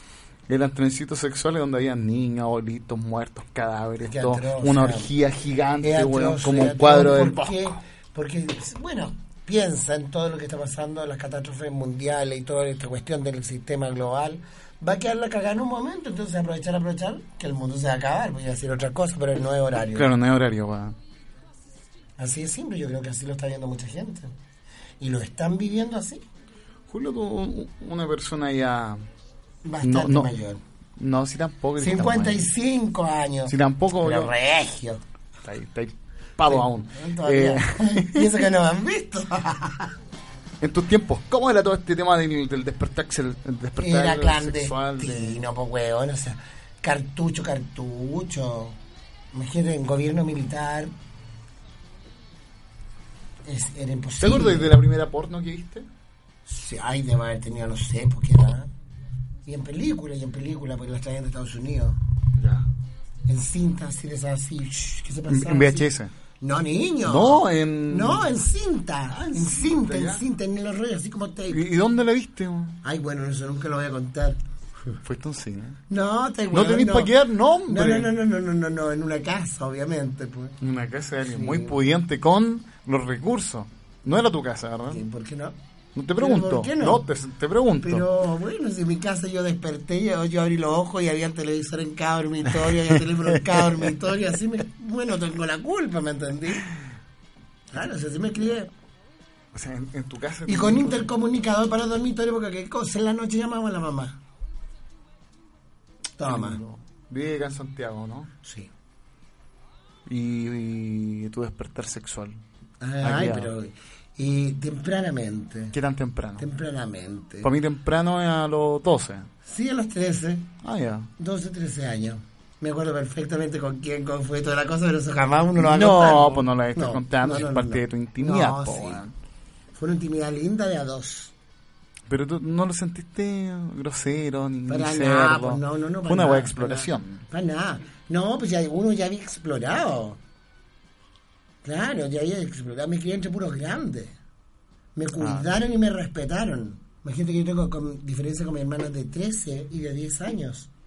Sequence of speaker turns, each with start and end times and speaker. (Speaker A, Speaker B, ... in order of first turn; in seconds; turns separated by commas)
Speaker A: 0.5-7.8, Speaker B: 4.0-5.1, Speaker B: 5.8-20.1, Speaker A: 19.9-20.9, Speaker B: 22.2-24.3, Speaker B: 25.0-26.2, Speaker A: 26.9-29.0, Speaker B: 29.6-30.6, Speaker A: 29.8-30.3, Speaker A: 31.0-32.5, Speaker B: 31.8-35.0, Speaker A: 33.5-34.3, Speaker A: 35.4-38.4, Speaker B: 36.5-39.9, Speaker A: 40.6-45.4, Speaker B: 43.8-48.8, Speaker B: 49.3-50.9, Speaker B: 53.4-54.7, Speaker A: 54.2-55.9, Speaker B: 56.5-58.7, Speaker B: 59.5-62.0, Speaker A: 62.4-62.7, Speaker B: 63.3-71.7, Speaker A: 65.3-66.1, Speaker A: 67.0-68.3, Speaker A: 69.2-70.2, Speaker A: 71.5-72.8, Speaker B: 72.8-75.0, Speaker A: 75.0-75.8, Speaker B: 75.9-77.1, Speaker A: 76.5-78.1, Speaker B: 77.7-80.6, Speaker A: 80.6-85.0, Speaker B: 81.2-81.8, Speaker B: 84.9-85.5, Speaker A: 85.9-88.0, Speaker B: 86.2-87.0, Speaker B: 87.8-96.7, Speaker A: 93.5-93.9, Speaker B: 97.7-98.7, Speaker A: 99.5-101.1, Speaker B: 100.5-104.2, Speaker B: 106.2-106.6, Speaker A: 106.2-108.3, Speaker B: 108.4-108.7, Speaker A: 110.0-112.4, Speaker B: 112.8-115.8, Speaker A: 113.0-113.5, Speaker A: 115.7-116.5, Speaker B: 116.4-117.5, Speaker A: 117.4-119.3, Speaker B: 119.4-120.5, Speaker A: 120.6-121.1, Speaker B: 121.2-129.0, Speaker A: 125.6-129.1, Speaker B: 129.7-131.3, Speaker A: 132.1-137.2, Speaker B: 134.7-140.2, Speaker B: 141.6-144.2, Speaker B: 144.9-150.7, Speaker A: 145.2-145.5